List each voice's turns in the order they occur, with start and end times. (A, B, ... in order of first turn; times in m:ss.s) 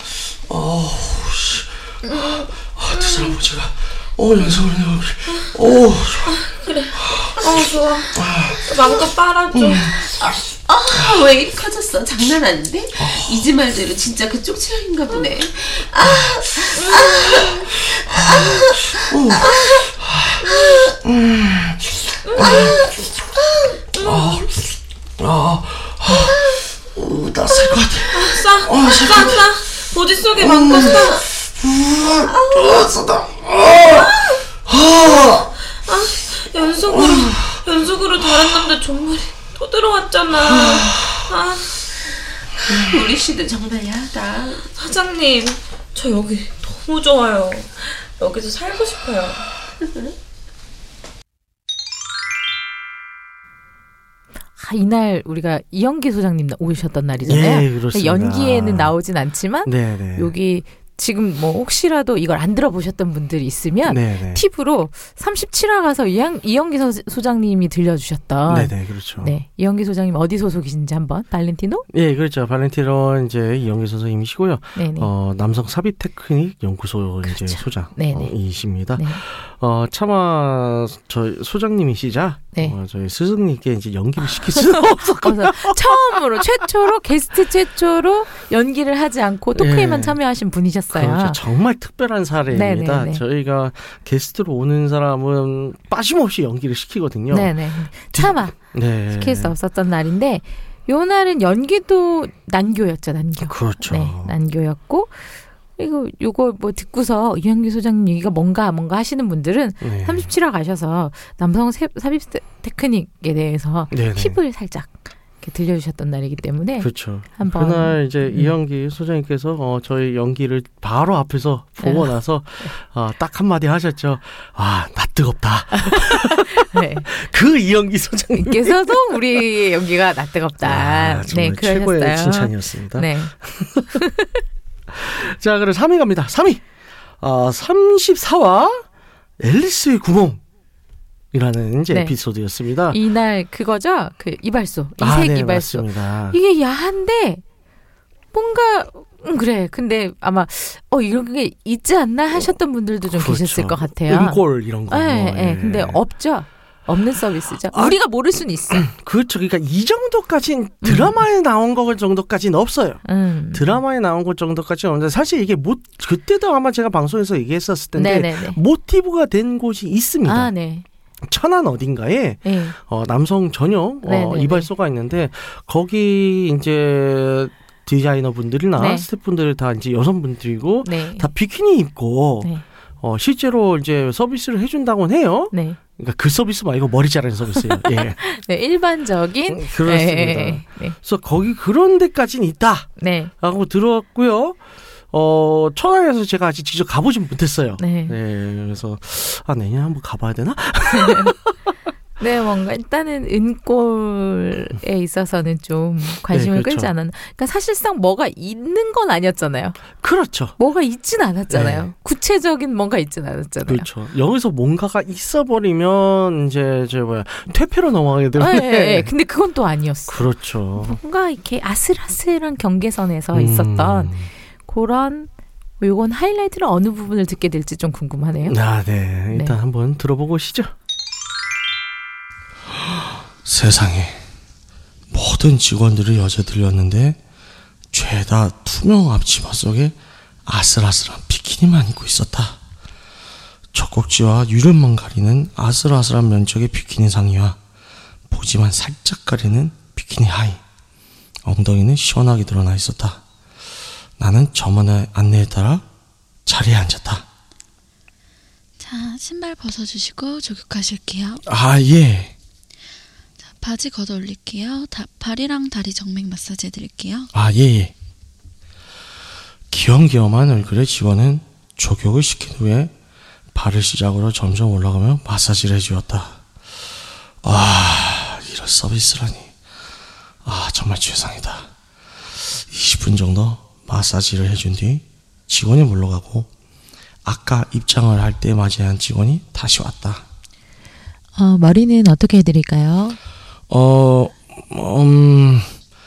0:00.5-0:02.0 A
0:02.1-0:03.4 B
0:02.8-0:06.4 A
0:05.3-0:05.6 B
0:06.3-0:10.1 B
0:07.0-0:09.0 A
0:09.5-0:09.9 A
0:10.3-0:19.5 C
0:13.0-0:13.5 A
0:16.8-0:17.4 B
0:18.1-0:22.9 A
0:19.5-0:19.8 B
0:22.3-0:22.8 B
0:24.0-0:24.5 B
0:24.0-0:24.6 A
0:25.2-0:29.5 A
0:28.1-0:31.3 B
0:30.4-0:35.5 A
0:30.8-0:31.0 C
0:32.6-0:33.0 C
0:35.8-0:41.9 B
0:36.9-0:37.6 A
0:40.5-0:41.2 A
0:42.7-0:44.7 C
0:44.7-0:49.5 B
0:49.8-0:50.1 C
0:54.6-1:11.9 D
0:57.2-0:59.0 E
0:59.6-1:00.3 E
1:03.8-1:04.4 E
1:08.5-1:09.3 E
1:11.9-1:26.4 E
1:14.8-1:15.1 D
1:17.3-1:18.4 D
1:18.9-1:19.2 D
1:24.6-1:31.4 D
1:29.6-1:30.2 E
1:30.9-1:37.5 E
1:32.5-1:33.2 D
1:37.3-1:38.6 D
1:38.1-1:39.5 E
1:39.1-1:58.6 D
1:43.4-1:44.3 E
1:49.8-1:50.3 E
1:53.9-1:54.4 E
1:56.8-2:09.2 E
2:01.8-2:02.1 D
2:05.8-2:07.1 D
2:08.4-2:13.3 D
2:10.6-2:13.9 E
2:14.0-2:14.4 D
2:14.9-2:16.6 E
2:17.2-2:18.8 E
2:19.4-2:20.4 E
2:21.3-2:23.0 E
2:21.9-2:22.2 D
2:22.9-2:27.4 D
2:25.0-2:26.4 E
2:28.3-2:38.8 D
2:33.1-2:36.0 E
2:37.7-2:38.0 E
2:38.7-2:50.5 E
2:40.8-2:41.2 D
2:43.0-2:43.8 D
2:48.0-2:48.6 D
2:50.2-2:50.8 D
2:51.2-3:02.5 E
2:52.4-2:52.8 D
2:54.0-2:54.7 D
2:58.8-2:59.1 D
3:00.8-3:01.3 D
3:03.0-3:08.2 E
3:05.5-3:05.8 D
3:07.6-3:11.0 D
3:09.5-3:14.6 E
3:13.0-3:13.3 D
3:15.1-3:21.5 E
3:17.8-3:18.2 D
3:21.0-3:21.3 D
3:22.2-3:29.8 D
3:26.3-3:26.9 E
3:30.0-3:30.6 E
3:30.6-3:33.9 D
3:31.5-3:31.9 E
3:33.7-3:39.1 E
3:38.4-3:44.1 D
3:40.1-3:41.0 E
3:43.3-3:44.3 E
3:44.7-3:45.3 D
3:45.8-3:48.6 D
3:48.4-3:50.7 E
3:49.3-3:49.6 D
3:52.7-3:54.2 E
3:55.1-3:57.2 E
3:57.9-4:02.6 E
4:03.7-4:07.6 E
4:08.3-4:10.6 E
4:11.4-4:13.2 E
4:14.2-4:15.8 E
4:16.5-4:17.2 E
4:18.8-4:21.4 F
4:21.5-4:22.3 E
4:23.5-4:27.3 F
4:27.3-4:27.9 E
4:29.7-4:32.9 E
4:33.5-4:36.4 E
4:37.4-4:39.5 E
4:40.4-4:41.7 E
4:42.5-4:46.5 E
4:47.2-4:50.2 E
4:51.4-4:53.2 D
4:53.7-4:55.7 E